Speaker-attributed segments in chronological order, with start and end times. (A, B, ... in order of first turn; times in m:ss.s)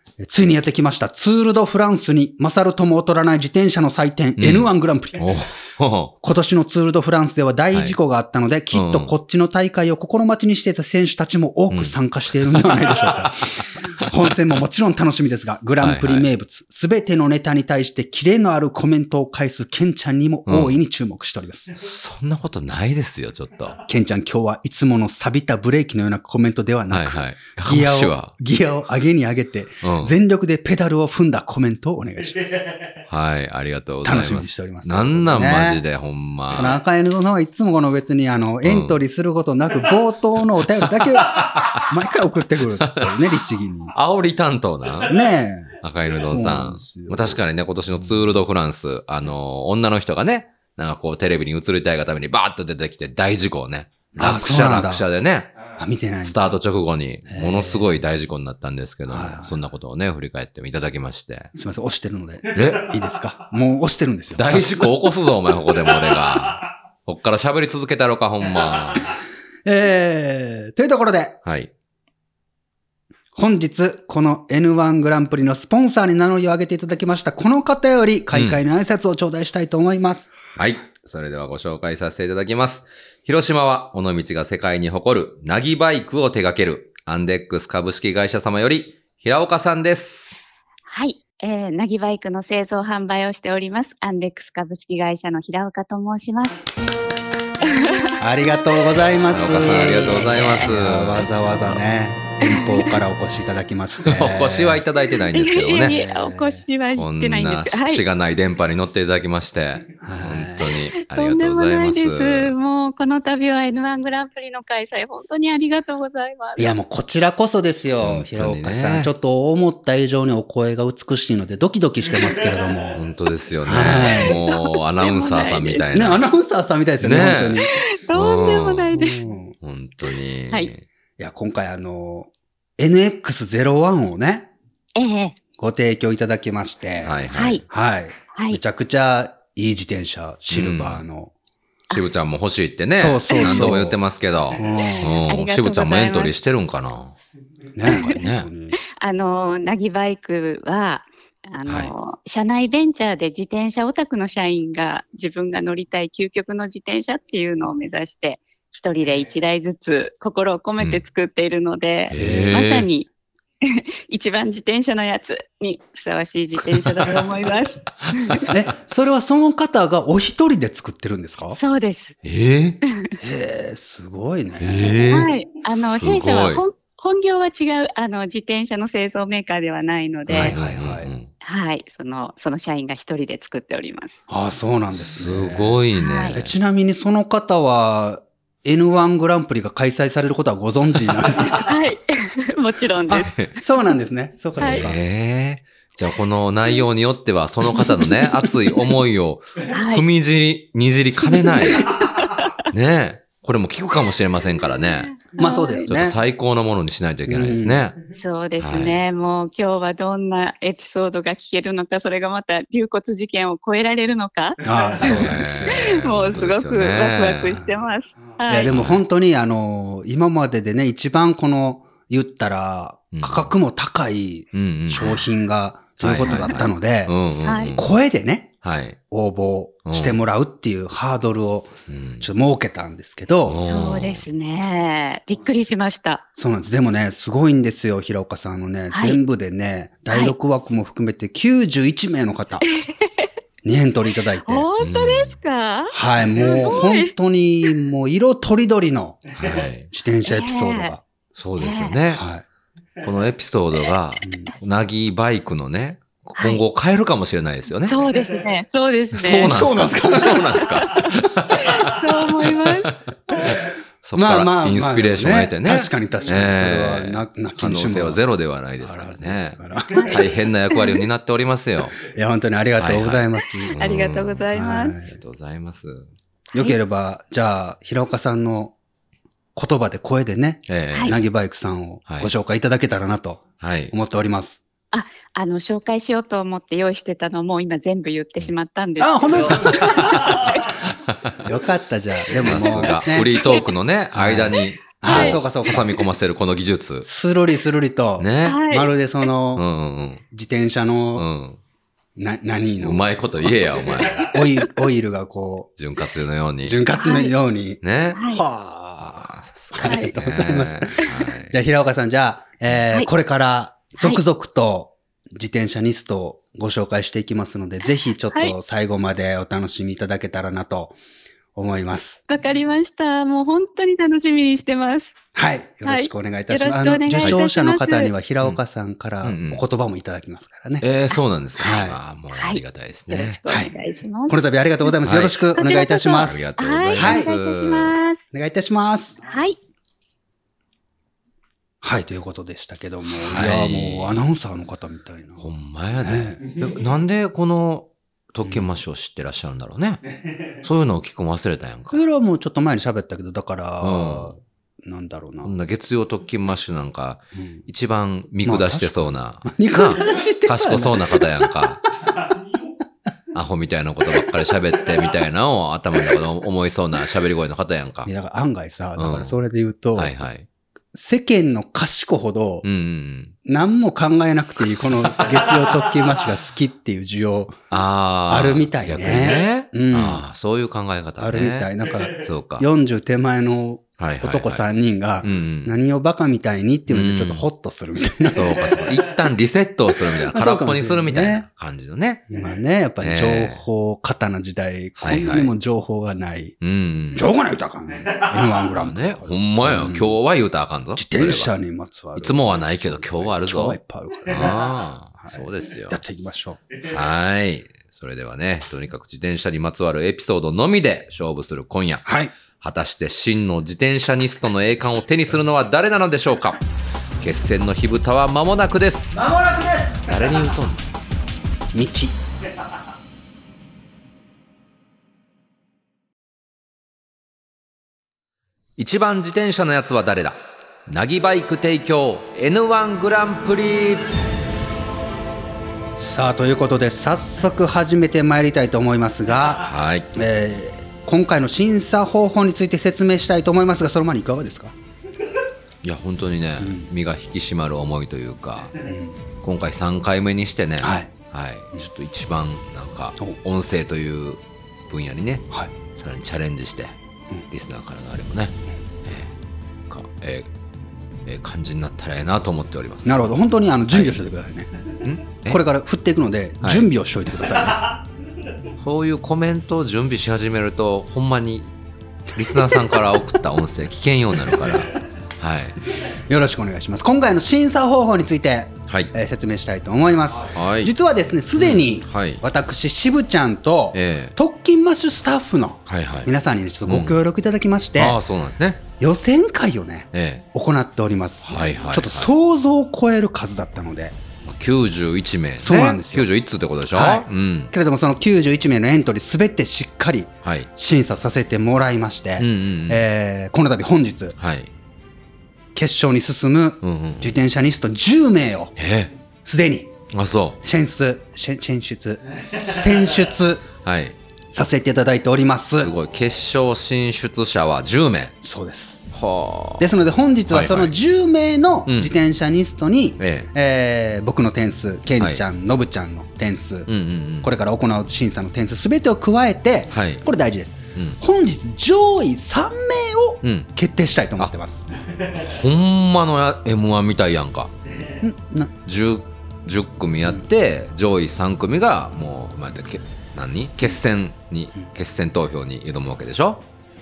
0:00.2-0:05.3 A
0:04.4-0:06.1 B
0:06.2-0:21.8 A
0:08.7-0:09.1 B
0:11.7-0:13.4 B
0:15.8-0:16.3 B
0:20.5-0:20.8 B
0:21.8-0:23.8 B
0:23.9-0:32.4 A
0:26.9-0:28.3 B
0:29.8-0:30.1 B
0:33.1-0:36.8 B
0:34.0-0:35.8 A
0:36.5-0:43.9 A
0:38.6-0:39.0 B
0:40.8-0:41.9 B
0:42.8-0:43.2 B
0:43.9-0:45.2 B
0:45.1-0:47.4 A
0:45.8-0:55.6 B
0:54.2-0:55.1 A
0:55.8-0:56.6 A
0:56.2-1:01.5 B
0:57.3-0:57.9 A
0:59.1-0:59.6 A
1:01.6-1:05.0 A
1:02.5-1:03.0 B
1:04.3-1:09.1 B
1:09.6-1:11.4 A
1:11.4-1:11.7 B
1:13.4-1:20.3 A
1:18.3-1:18.6 B
1:20.6-1:30.4 B
1:30.9-1:36.7 C
1:37.6-1:38.9 C
1:38.2-1:44.8 A
1:39.3-1:41.7 B
1:42.4-1:42.9 C
1:44.0-1:46.0 B
1:45.3-1:48.0 C
1:45.9-1:46.6 A
1:46.9-1:52.5 B
1:50.0-1:50.7 A
1:51.0-1:56.7 C
1:56.6-2:03.0 A
1:58.0-1:59.1 B
2:03.0-2:06.2 B
2:03.6-2:04.4 A
2:04.0-2:05.9 C
2:05.9-2:07.7 A
2:07.0-2:09.0 B
2:07.7-2:09.3 C
2:08.9-2:09.5 A
2:09.6-2:10.9 B
2:11.2-2:14.5 A
2:15.0-2:15.4 C
2:15.6-2:17.2 A
2:17.0-2:17.6 B
2:17.3-2:17.6 C
2:17.7-2:21.3 A
2:20.5-2:21.0 B
2:21.9-2:27.2 B
2:23.0-2:24.0 A
2:23.3-2:23.7 C
2:24.6-2:25.2 A
2:25.2-2:26.4 C
2:27.8-2:28.8 A
2:27.9-2:28.5 B
2:28.8-2:43.1 C
2:31.7-2:31.9 B
2:42.1-2:42.9 B
2:42.1-2:42.7 A
2:43.6-2:48.5 C
2:46.7-2:47.2 B
2:48.2-2:48.5 B
2:48.5-2:51.6 A
2:51.5-2:52.2 C
2:52.2-2:52.8 B
2:53.2-2:55.1 A
2:54.6-2:56.6 B
2:55.1-3:00.6 C
3:00.3-3:01.1 A
3:00.3-3:01.3 B
3:01.4-3:04.3 C
3:04.3-3:05.8 A
3:05.0-3:06.6 B
3:06.0-3:06.4 C
3:06.3-3:11.7 A
3:11.7-3:13.5 C
3:13.1-3:15.0 A
3:14.6-3:21.9 B
3:14.6-3:14.9 C
3:19.7-3:20.1 C
3:21.3-3:22.5 C
3:22.7-3:25.1 B
3:25.1-3:25.9 C
3:25.4-3:26.2 A
3:25.9-3:28.0 B
3:27.3-3:27.9 A
3:28.1-3:38.8 C
3:28.6-3:29.0 B
3:34.6-3:35.9 A
3:35.0-3:37.6 B
3:38.5-3:47.2 A
3:38.7-3:39.0 B
3:43.1-3:43.5 B
3:44.5-3:45.2 B
3:46.0-3:47.9 B
3:46.3-3:46.6 C
3:47.4-3:47.8 C
3:47.7-3:48.5 A
3:48.6-3:49.0 B
3:49.1-3:53.6 A
3:49.9-3:50.2 B
3:51.9-3:52.3 B
3:53.4-3:54.3 B
3:53.6-3:56.2 C
3:56.4-4:02.7 A
3:58.9-3:59.2 C
4:02.8-4:03.3 C
4:03.6-4:04.7 A
4:04.4-4:07.1 C
4:04.8-4:05.4 B
4:05.9-4:09.4 A
4:09.4-4:09.9 B
4:09.9-4:11.0 A
4:10.3-4:10.9 C
4:11.4-4:12.2 B
4:11.6-4:12.0 C
4:12.1-4:12.4 A
4:13.0-4:18.0 B
4:14.2-4:14.5 A
4:17.8-4:19.6 C
4:19.1-4:21.9 B
4:19.2-4:20.6 A
4:20.6-4:23.6 C
4:24.0-4:32.0 B
4:24.2-4:28.2 A
4:28.8-4:30.0 A
4:29.9-4:31.0 C
4:32.0-4:33.7 A
4:32.8-4:34.5 B
4:33.8-4:35.0 C
4:34.5-4:35.2 A
4:35.0-4:36.1 B
4:36.5-4:38.7 A
4:39.6-4:44.6 A
4:40.7-4:41.2 B
4:43.6-4:43.9 B
4:44.9-4:50.8 C
4:49.0-4:50.7 A
4:49.5-4:50.6 B
4:51.1-4:51.4 B
4:51.4-4:53.5 A
4:52.4-4:57.1 B
4:52.4-4:53.6 C
4:54.1-4:56.0 A
4:55.0-4:55.4 C
4:57.0-4:59.7 A
4:58.2-4:58.6 B
4:58.4-4:58.9 C
4:59.6-5:00.2 B
5:00.3-5:01.3 A
5:01.2-5:01.6 B
5:02.2-5:03.5 A
5:02.8-5:04.4 B
5:04.2-5:05.7 A
5:05.8-5:06.8 B
5:06.6-5:21.0 A
5:07.0-5:07.3 C
5:07.8-5:08.2 B
5:08.2-5:08.4 C
5:09.0-5:11.6 B
5:09.8-5:10.1 C
5:21.6-5:22.2 A
5:22.3-5:25.2 C
5:25.4-5:30.9 A
5:25.8-5:28.1 C
5:29.2-5:29.6 B
5:30.8-5:33.4 B
5:31.6-5:32.0 A
5:32.3-5:34.9 C
5:34.3-5:36.4 A
5:35.0-5:35.5 B
5:35.6-5:38.3 C
5:36.1-5:38.0 B
5:37.0-5:37.3 A
5:38.3-5:39.2 A
5:39.3-5:39.6 C
5:41.8-5:45.4 A
5:43.1-5:44.2 B
5:45.4-5:50.0 B
5:46.0-5:46.4 A
5:50.6-5:52.0 B
5:51.9-5:55.5 A
5:53.8-5:54.4 B
5:55.4-6:01.8 B
5:57.4-5:57.6 A
5:58.4-6:01.5 A
6:03.3-6:08.1 B
6:08.0-6:10.1 A
6:09.0-6:09.4 B
6:10.0-6:10.5 B
6:10.9-6:12.7 A
6:12.6-6:13.4 B
6:13.4-6:17.6 A
6:17.7-6:22.7 B
6:18.3-6:20.2 A
6:21.2-6:28.7 A
6:24.0-6:24.7 B
6:25.2-6:25.7 B
6:26.9-6:27.4 B
6:28.3-6:32.3 B
6:30.2-6:31.5 A
6:32.3-6:36.6 A
6:33.0-6:33.6 B
6:35.0-6:35.5 B
6:36.6-6:37.3 B
6:37.2-6:40.2 A
6:38.5-6:41.5 B
6:41.0-6:44.7 A
6:42.2-6:46.0 B
6:45.2-6:46.6 A
6:46.8-6:52.1 B
6:52.1-6:52.3 A
6:52.6-6:56.6 B
6:57.2-6:59.4 B
7:00.0-7:00.8 B
7:01.7-7:02.1 A
7:08.8-7:14.1 B
7:16.0-7:24.8 A
7:19.4-7:20.1 B
7:25.8-7:28.8 B
7:26.6-7:26.9 A
7:28.8-7:29.2 A
7:29.4-7:37.0 B
7:30.8-7:31.1 A
7:37.5-7:39.3 B
7:39.9-7:40.5 B
7:41.2-7:43.3 B
7:43.0-7:44.7 A
7:43.9-7:44.2 B
7:45.0-7:45.6 B
7:45.5-7:47.9 A
7:46.6-7:46.9 B
7:48.8-7:51.7 B
7:52.3-7:55.8 B
7:52.6-7:53.0 A
7:56.3-8:08.2 A
8:00.5-8:00.9 B
8:01.5-8:02.4 B
8:03.9-8:04.4 B
8:05.9-8:06.3 B
8:06.9-8:07.2 B
8:08.0-8:08.8 B
8:09.0-8:14.2 A
8:10.1-8:10.4 B
8:11.4-8:12.3 B
8:14.4-8:17.7 B
8:15.6-8:16.3 A
8:16.9-8:24.4 A
8:20.4-8:20.7 B
8:22.4-8:23.0 B
8:24.4-8:24.7 B
8:25.8-8:28.7 A
8:26.8-8:27.4 B
8:28.8-8:29.1 B
8:29.4-8:29.9 A
8:30.1-8:30.6 B
8:30.6-8:33.7 A
8:33.8-8:34.2 B
8:34.5-8:35.9 A
8:35.8-8:38.4 B
8:38.4-8:39.0 A
8:39.1-8:39.9 B
8:39.8-8:46.9 A
8:40.5-8:40.9 B
8:41.9-8:42.1 B
8:43.2-8:43.5 B
8:46.9-8:47.5 B
8:47.4-8:54.9 A
8:49.9-8:50.2 B
8:53.4-8:53.7 B
8:55.3-8:57.7 B
8:58.2-8:58.7 A
8:58.8-9:06.6 B